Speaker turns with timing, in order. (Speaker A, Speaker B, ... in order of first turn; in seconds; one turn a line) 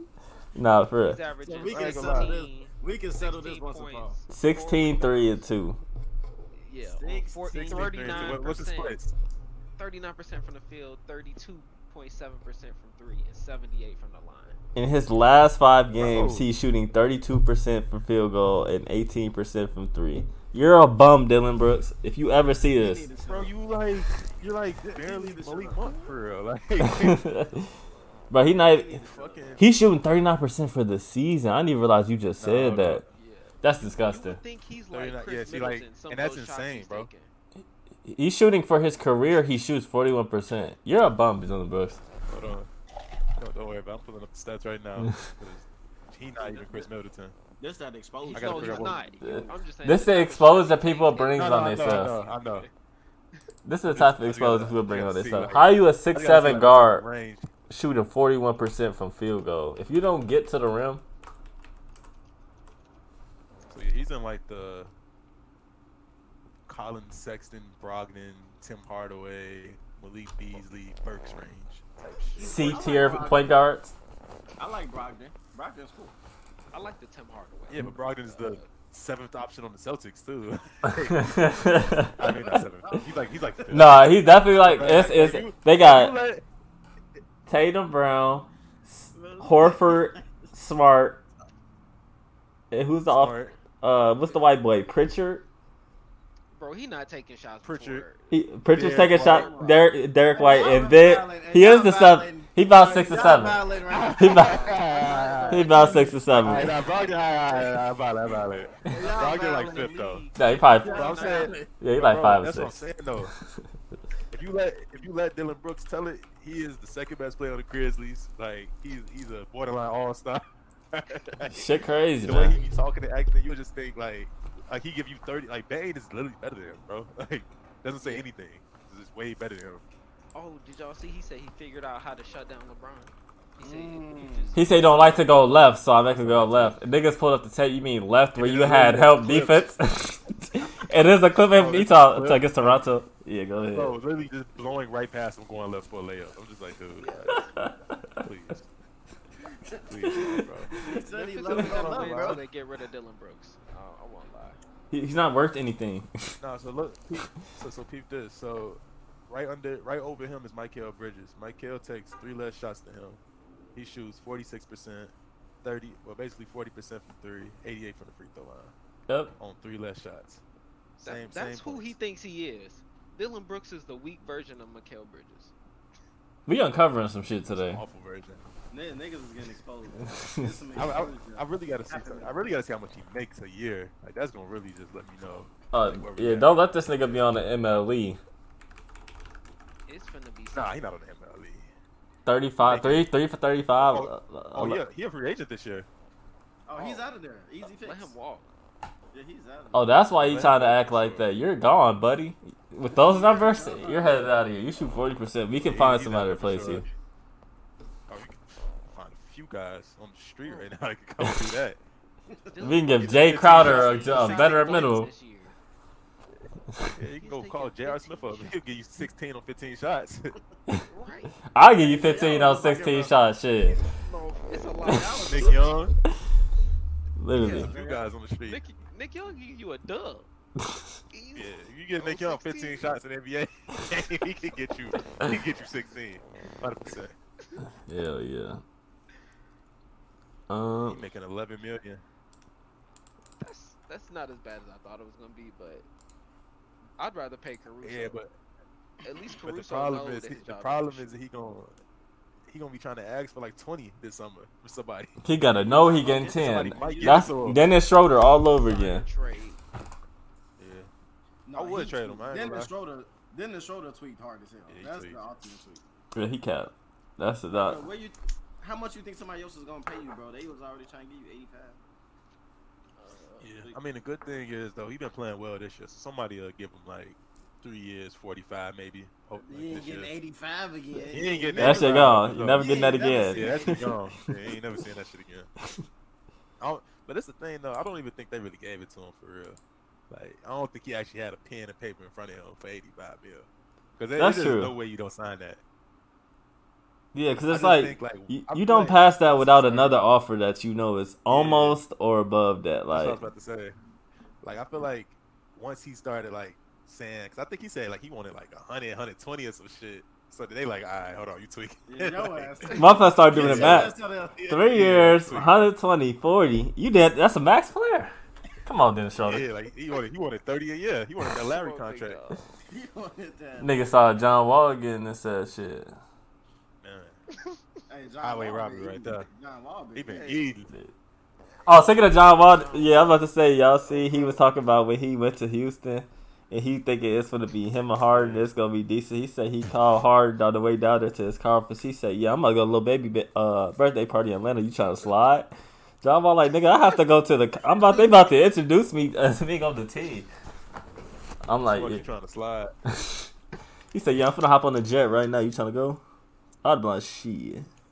Speaker A: 0.6-1.2
Speaker B: 1.0-5.4
Speaker C: 1.5-2.4
Speaker D: 1.5-4.2
Speaker A: 4.3-5.8
Speaker B: 6.6-9.0
Speaker D: 6.8-8.4
Speaker C: 7.5-9.1
Speaker B: 9.8-14.6
Speaker A: 14.8-23.1
Speaker C: 15.9-16.5
Speaker D: 22.6-23.5
Speaker C: 23.3-27.3
Speaker D: 24.8-26.1
Speaker A: 26.8-27.7
Speaker A: 28.3-29.0
Speaker D: 28.5-29.6
Speaker C: 29.1-29.7
Speaker A: 29.6-33.0
Speaker C: 32.4-33.1
Speaker B: 33.1-37.3
Speaker A: 33.6-34.4
Speaker C: 34.9-37.1
Speaker A: 38.0-42.0
Speaker C: 42.3-42.7
Speaker C: 43.4-47.4
Speaker D: 47.6-49.6
Speaker B: 48.2-52.7
Speaker C: 48.3-49.1
Speaker A: 49.2-52.1
Speaker C: 51.4-52.7
Speaker A: 53.6-57.0
Speaker C: 53.9-57.5
Speaker A: 57.7-61.0
Speaker C: 63.7-64.9
Speaker C: 66.7-72.5
Speaker B: 72.4-73.1
Speaker D: 72.4-73.5
Speaker A: 72.4-73.9
Speaker D: 74.6-76.2
Speaker B: 76.7-78.7
Speaker C: 77.7-81.4
Speaker A: 81.1-82.3
Speaker D: 81.7-83.8
Speaker C: 82.2-86.4
Speaker A: 83.7-86.1
Speaker A: 87.5-91.2
Speaker D: 89.1-90.3
Speaker A: 92.7-95.5
Speaker C: 93.1-93.6
Speaker B: 96.5-98.3
Speaker C: 97.6-98.0
Speaker A: 98.3-103.6
Speaker C: 98.7-99.5
Speaker D: 98.9-107.7
Speaker C: 103.9-105.8
Speaker A: 104.2-104.7
Speaker B: 104.3-106.7
Speaker A: 105.5-106.7
Speaker C: 106.4-110.3
Speaker B: 108.9-111.6
Speaker D: 108.9-110.0
Speaker A: 110.4-111.2
Speaker D: 110.8-111.7
Speaker C: 110.9-113.3
Speaker A: 111.8-112.9
Speaker C: 114.3-129.8
Speaker A: 121.5-122.6
Speaker B: 130.3-135.3
Speaker D: 133.6-134.6
Speaker A: 134.6-144.0
Speaker C: 136.2-136.8
Speaker C: 138.4-139.7
Speaker C: 141.5-142.9
Speaker C: 143.7-147.5
Speaker B: 147.0-147.5
Speaker A: 147.3-148.0
Speaker C: 148.2-148.7
Speaker C: 149.9-150.7
Speaker A: 150.1-150.4
Speaker D: 150.8-152.4
Speaker B: 150.9-154.6
Speaker C: 151.4-152.4
Speaker A: 154.9-156.4
Speaker C: 156.4-163.2
Speaker C: 163.8-168.7
Speaker C: 169.4-170.4
Speaker B: 171.0-175.5
Speaker C: 171.0-172.0
Speaker A: 176.5-177.8
Speaker C: 177.5-178.4
Speaker D: 178.7-182.4
Speaker A: 180.1-180.5
Speaker C: 180.8-187.2
Speaker A: 185.7-188.2
Speaker B: 189.9-190.8
Speaker C: 190.5-191.7
Speaker A: 192.3-194.8
Speaker C: 192.6-193.1
Speaker C: 193.8-195.9
Speaker D: 196.7-198.2
Speaker B: 196.8-197.1
Speaker B: 197.6-198.5
Speaker D: 199.1-199.9
Speaker A: 199.7-206.8
Speaker C: 200.2-201.3
Speaker D: 202.9-204.3
Speaker C: 205.6-206.9
Speaker C: 208.1-211.8
Speaker B: 210.4-210.7
Speaker B: 212.5-215.6
Speaker A: 212.6-215.1
Speaker C: 213.0-214.5
Speaker C: 216.8-220.3
Speaker B: 217.2-218.6
Speaker B: 220.9-221.4
Speaker A: 221.5-223.8
Speaker D: 221.8-223.1
Speaker B: 223.8-225.7
Speaker D: 224.8-225.8
Speaker C: 225.3-226.0
Speaker A: 227.2-227.7
Speaker C: 227.3-228.6
Speaker B: 227.4-227.7
Speaker D: 227.4-228.1
Speaker B: 228.5-230.3
Speaker B: 231.1-233.0
Speaker C: 231.3-237.1
Speaker A: 237.8-238.6
Speaker A: 240.5-241.0
Speaker C: 240.8-242.0
Speaker B: 243.4-245.9
Speaker B: 247.0-248.2
Speaker C: 247.8-248.3
Speaker B: 249.0-251.1
Speaker C: 249.4-251.8
Speaker C: 252.5-255.2
Speaker A: 255.2-259.0
Speaker D: 255.5-257.3
Speaker C: 256.4-257.6
Speaker B: 258.6-259.6
Speaker C: 260.6-260.9
Speaker D: 261.5-265.8
Speaker C: 261.6-262.7
Speaker C: 264.7-265.2
Speaker A: 266.1-267.9
Speaker D: 267.5-271.8
Speaker B: 273.0-273.6
Speaker C: 273.4-280.1
Speaker D: 279.4-284.1
Speaker C: 281.1-285.5
Speaker A: 281.6-283.9
Speaker C: 286.6-289.6
Speaker C: 290.1-295.6
Speaker A: 294.2-294.7
Speaker A: 297.1-303.2
Speaker C: 297.5-300.0
Speaker C: 301.3-301.8
Speaker C: 302.9-303.8
Speaker C: 304.4-312.8
Speaker D: 311.9-314.6
Speaker A: 312.8-313.9
Speaker C: 313.3-315.7
Speaker A: 314.5-318.1
Speaker A: 318.6-319.5
Speaker C: 319.2-322.2
Speaker B: 321.3-322.4
Speaker D: 322.7-323.8
Speaker A: 323.6-325.9
Speaker C: 326.8-327.2
Speaker D: 327.9-330.4
Speaker C: 328.2-329.3
Speaker C: 329.9-330.7
Speaker B: 330.1-330.4
Speaker A: 331.7-345.5
Speaker B: 332.5-333.0
Speaker D: 333.9-334.4
Speaker C: 338.1-338.5
Speaker A: 346.0-350.3
Speaker A: 351.5-352.1
Speaker C: 351.6-352.7
Speaker A: 352.9-353.3
Speaker A: 353.9-356.0
Speaker A: 356.6-357.7